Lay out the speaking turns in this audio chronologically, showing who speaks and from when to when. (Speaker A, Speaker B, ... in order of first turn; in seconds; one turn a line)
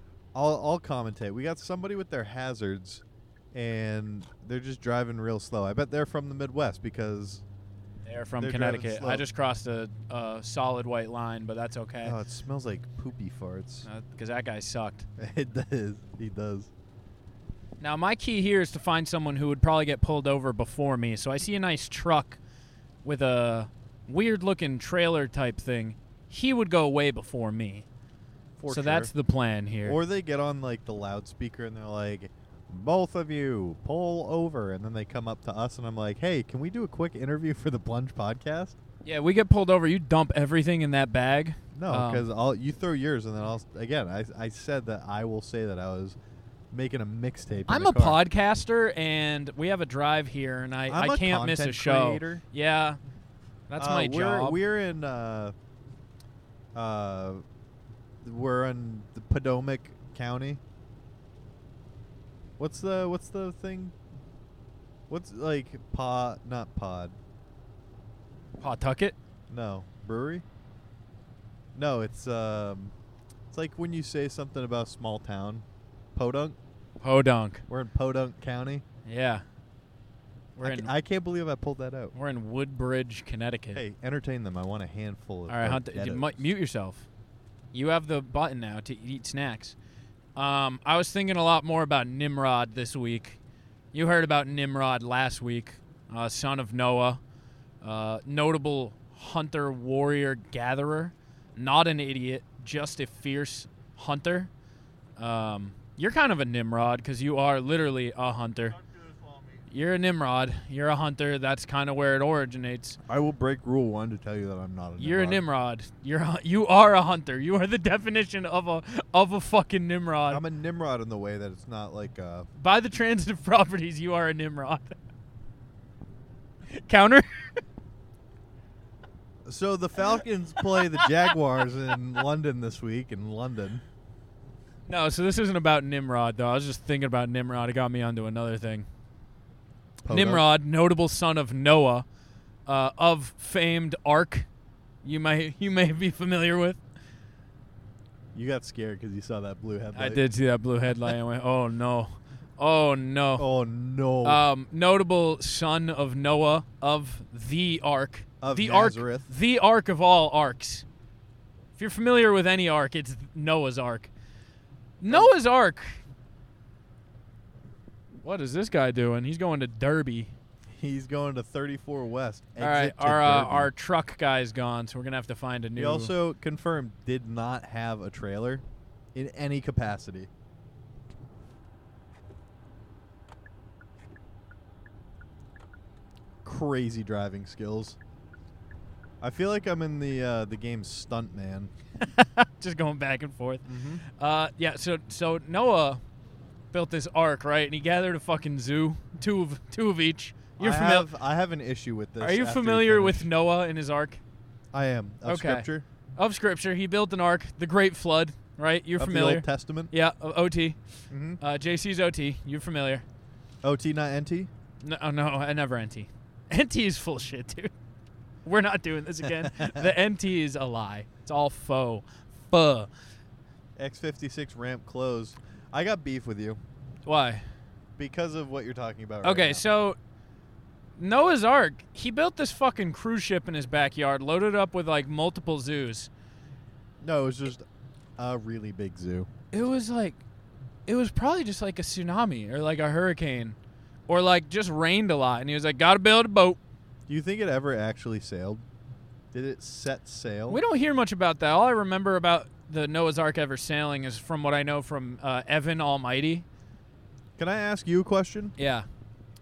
Speaker A: 0.3-7.4
Speaker B: 8.0-12.2
Speaker A: 8.4-9.2
Speaker A: 12.0-13.9
Speaker B: 13.8-15.1
Speaker A: 15.2-16.7
Speaker B: 17.8-22.4
Speaker B: 23.0-27.9
Speaker A: 28.6-29.1
Speaker B: 28.7-30.0
Speaker A: 29.8-38.8
Speaker B: 39.0-42.2
Speaker A: 41.7-46.1
Speaker A: 46.7-48.2
Speaker B: 47.7-53.0
Speaker A: 50.9-52.4
Speaker B: 53.7-54.6
Speaker A: 53.8-55.5
Speaker A: 56.7-57.4
Speaker A: 58.2-60.6
Speaker A: 62.6-63.9
Speaker A: 65.1-67.2
Speaker B: 68.6-69.2
Speaker A: 69.5-70.4
Speaker A: 71.7-72.9
Speaker A: 73.5-76.6
Speaker B: 77.0-77.6
Speaker A: 77.7-78.8
Speaker B: 79.0-79.4
Speaker B: 80.6-80.9
Speaker A: 80.6-82.1
Speaker B: 82.1-83.8
Speaker A: 83.7-86.4
Speaker B: 85.5-87.1
Speaker B: 87.7-89.7
Speaker B: 90.3-93.4
Speaker B: 93.9-97.2
Speaker B: 97.8-104.5
Speaker B: 105.2-108.8
Speaker B: 109.7-113.0
Speaker A: 113.1-115.4
Speaker B: 115.0-120.4
Speaker A: 120.3-122.5
Speaker B: 122.6-125.0
Speaker B: 126.7-127.5
Speaker A: 129.4-133.8
Speaker B: 130.7-131.1
Speaker B: 134.8-138.9
Speaker A: 140.0-140.4
Speaker B: 140.1-142.1
Speaker B: 142.7-144.5
Speaker B: 145.0-146.8
Speaker A: 148.3-150.2
Speaker B: 149.9-153.5
Speaker A: 153.4-154.4
Speaker B: 154.2-160.8
Speaker A: 158.4-159.3
Speaker B: 161.8-164.1
Speaker B: 165.0-166.0
Speaker B: 168.2-170.3
Speaker A: 170.8-173.7
Speaker B: 172.6-176.1
Speaker A: 175.8-180.3
Speaker A: 186.4-188.0
Speaker A: 189.2-191.7
Speaker B: 192.0-196.0
Speaker A: 193.7-194.0
Speaker B: 196.7-201.1
Speaker A: 200.6-203.3
Speaker B: 202.2-204.2
Speaker A: 204.7-205.8
Speaker B: 205.2-210.8
Speaker A: 209.0-209.9
Speaker A: 211.1-211.4
Speaker B: 211.4-213.0
Speaker A: 213.6-214.5
Speaker B: 214.8-217.7
Speaker B: 218.4-222.9
Speaker A: 219.2-219.9
Speaker A: 223.8-226.6
Speaker B: 227.0-227.4
Speaker A: 228.0-229.6
Speaker B: 229.2-230.0
Speaker B: 231.0-236.1
Speaker A: 237.0-237.7
Speaker A: 238.2-239.3
Speaker B: 239.5-240.2
Speaker B: 240.9-243.6
Speaker B: 244.1-246.6
Speaker A: 247.1-248.6
Speaker A: 249.3-250.6
Speaker B: 250.5-256.4
Speaker A: 257.4-258.5
Speaker B: 258.6-258.9